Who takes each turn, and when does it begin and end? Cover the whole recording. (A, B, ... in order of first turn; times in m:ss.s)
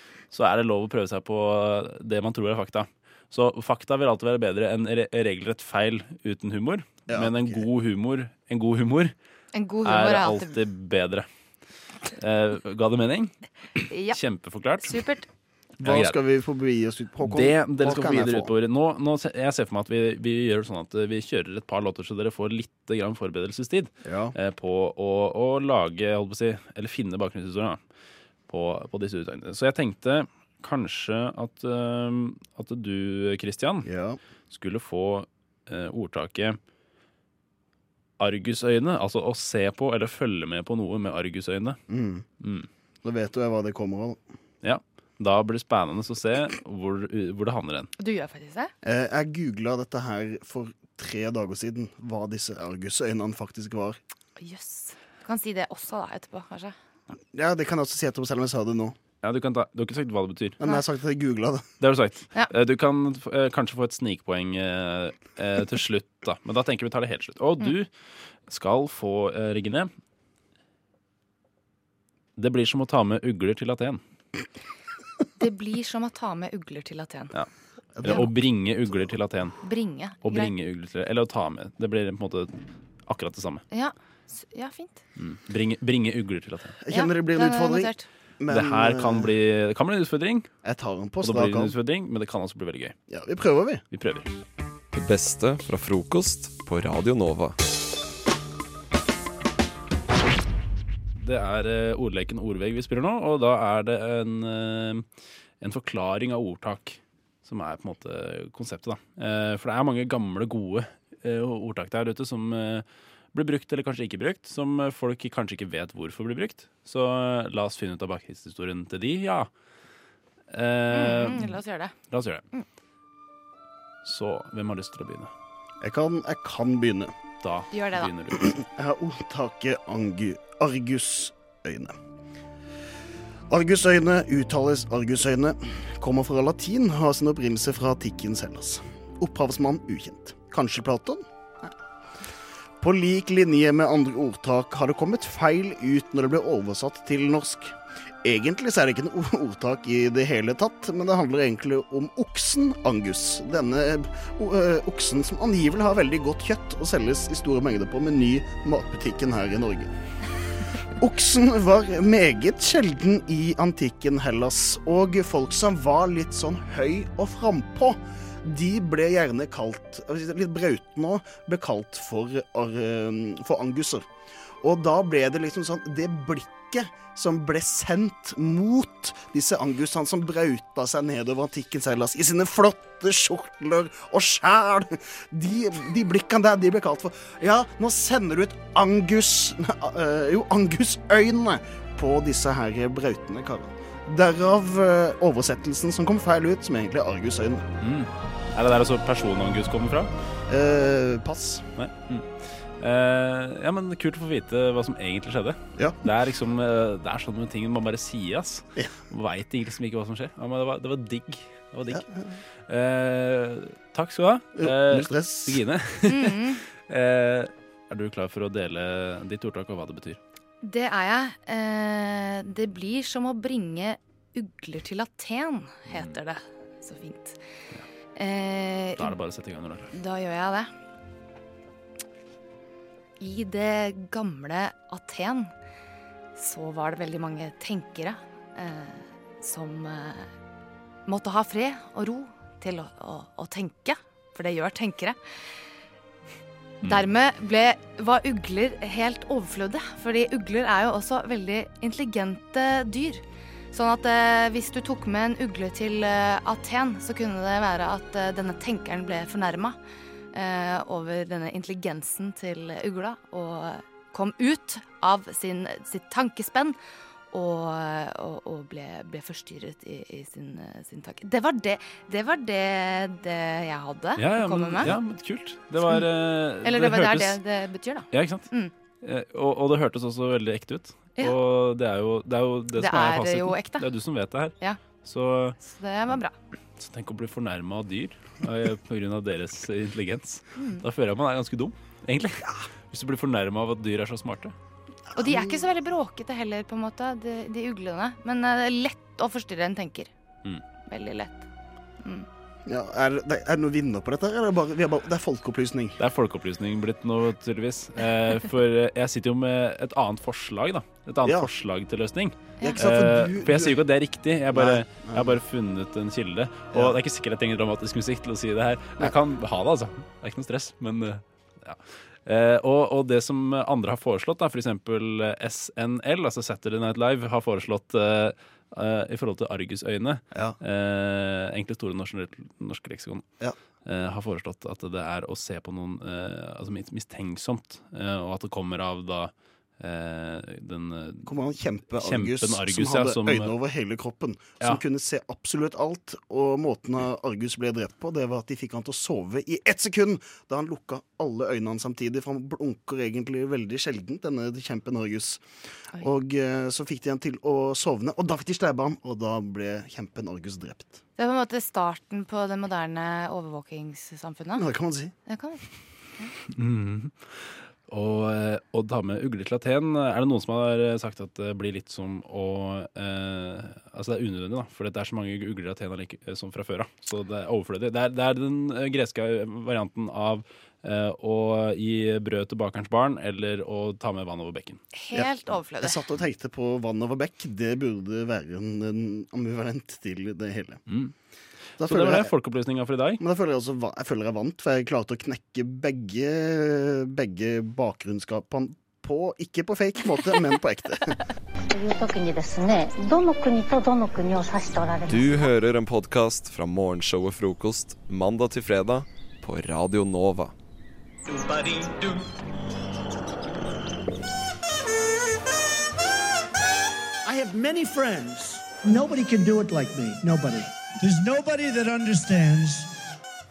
0:00.3-0:09.1 A
0:07.1-0:07.6 B
0:09.5-0:10.6 C
0:09.8-0:11.2 A
0:12.2-0:13.3 A
0:13.9-0:14.2 C
0:14.1-0:14.9 A
0:14.8-0:15.2 C
0:15.8-0:16.2 A
0:15.8-0:18.5 B
0:17.2-0:27.8 A
0:24.0-0:24.3 B
0:28.5-0:33.9 A
0:33.8-0:34.2 B
0:34.5-0:36.6 A
0:38.2-0:41.8 A
0:41.9-0:42.2 B
0:42.4-0:42.7 A
0:43.0-0:44.2 B
0:44.6-0:47.9 A
0:48.0-0:48.7 C
0:48.8-0:54.0 B
0:54.4-0:56.7 C
0:57.3-0:59.0 B
0:59.2-1:00.6 A
1:00.6-1:01.6 B
1:01.8-1:07.9 A
1:08.5-1:09.9 A
1:12.4-1:14.0 A
1:15.4-1:17.3 C
1:18.0-1:18.3 B
1:18.0-1:19.5 A
1:19.6-1:20.5 C
1:20.2-1:22.5 A
1:23.0-1:23.6 A
1:23.7-1:25.0 C
1:25.2-1:26.8 A
1:26.8-1:29.3 B
1:26.9-1:28.1 C
1:28.5-1:30.5 A
1:30.6-1:31.7 B
1:31.2-1:33.0 A
1:33.1-1:33.8 B
1:33.9-1:34.3 A
1:34.9-1:37.6 D
1:41.2-1:45.1 A
1:45.6-1:59.5 A
2:00.5-2:01.6 A
2:00.9-2:02.0 C
2:02.1-2:02.4 A
2:04.0-2:05.3 A
2:05.8-2:07.1 B
2:07.4-2:08.6 A
2:07.7-2:08.1 C
2:08.6-2:11.9 B
2:13.5-2:21.7 B
2:22.8-2:39.9 B
2:41.0-2:54.0 B
2:54.6-3:17.6 B
3:17.8-3:20.1 A
3:20.5-3:21.6 B
3:21.8-3:32.0 A
3:31.9-3:32.3 B
3:32.7-3:40.2 A
3:34.6-3:35.6 B
3:36.0-3:36.6 C
3:40.6-3:47.4 C
3:48.2-3:49.1 C
3:49.0-3:49.9 A
3:49.9-3:50.7 C
3:53.2-3:55.5 C
3:56.4-4:00.3 C
4:01.0-4:05.2 C
4:06.8-4:19.8 C
4:20.3-4:26.8 C
4:27.3-4:34.9 C
4:34.2-4:37.4 A
4:36.6-4:38.7 C
4:38.1-4:38.5 A
4:39.0-4:45.6 A
4:42.7-4:43.9 C
4:45.6-4:46.3 C
4:46.8-4:54.5 A
4:50.6-4:50.8 C
4:55.1-4:55.7 B
4:55.2-5:00.1 C
5:00.8-5:01.4 C
5:02.6-5:06.0 B
5:06.0-5:33.2 A
5:12.6-5:12.8 C
5:12.6-5:13.8 B
5:14.5-5:15.4 B
5:16.7-5:17.0 B
5:33.8-5:41.4 A
5:41.2-5:55.4 B
5:41.9-5:43.5 A
5:56.0-6:01.0 B
6:01.2-6:04.6 C
6:04.6-6:05.1 B
6:05.2-6:05.6 C
6:06.5-6:24.8 A
6:24.9-6:26.0 C
6:25.1-6:30.8 B
6:30.9-6:31.1 A
6:31.8-6:33.2 A
6:31.8-6:32.3 B
6:33.2-6:41.2 B
6:41.7-6:45.4 E
6:45.1-6:50.5 D
6:51.3-6:52.1 F
6:57.2-7:02.9 F